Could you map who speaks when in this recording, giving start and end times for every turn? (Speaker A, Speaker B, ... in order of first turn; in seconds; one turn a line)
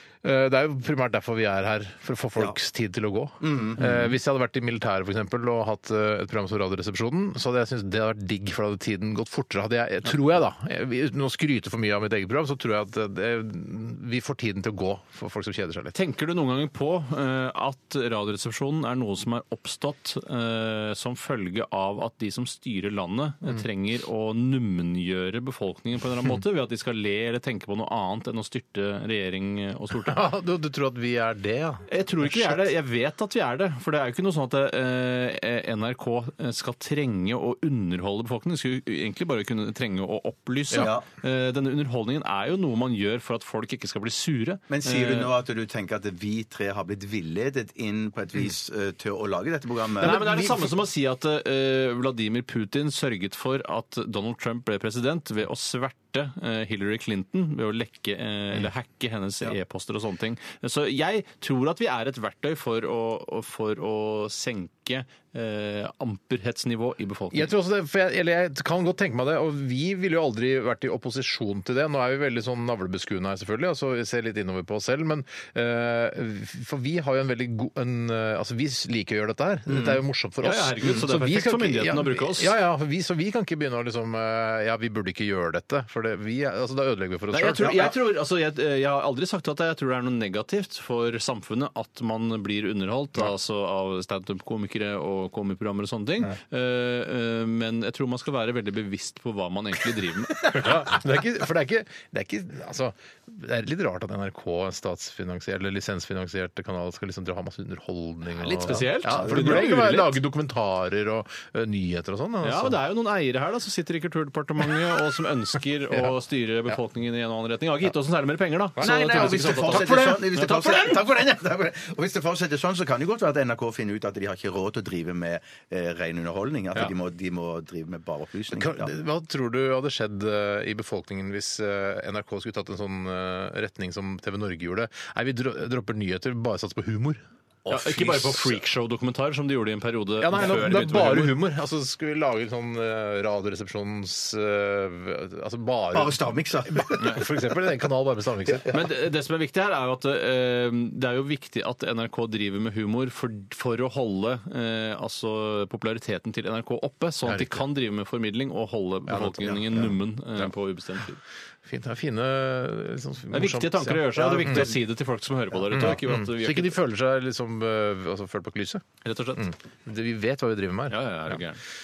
Speaker A: 0.2-15.9
Speaker B: 3.4-4.0
Speaker C: 15.9-30.2
Speaker A: 29.9-32.7
Speaker C: 31.9-45.3
Speaker B: 40.7-41.1
Speaker B: 44.7-50.2
Speaker A: 50.0-50.8
Speaker C: 50.0-67.5
Speaker A: 67.3-87.8
Speaker B: 79.7-80.0
Speaker C: 80.4-82.5
Speaker C: 87.3-100.9
Speaker B: 87.6-88.0
Speaker A: 100.3-112.8
Speaker C: 108.4-110.2
Speaker B: 108.6-109.7
Speaker C: 112.4-121.0
Speaker A: 118.8-120.7
Speaker B: 118.8-128.9
Speaker A: 128.6-138.6
Speaker C: 137.7-141.4
Speaker A: 140.2-148.7
Speaker B: 145.9-147.3
Speaker B: 148.5-148.8
Speaker C: 148.7-161.2
Speaker A: 157.3-157.7
Speaker B: 159.1-160.0
Speaker A: 161.7-164.7
Speaker C: 163.3-166.8
Speaker B: 164.0-164.8
Speaker A: 165.7-168.8
Speaker C: 169.0-169.5
Speaker A: 169.4-171.4
Speaker C: 170.9-171.6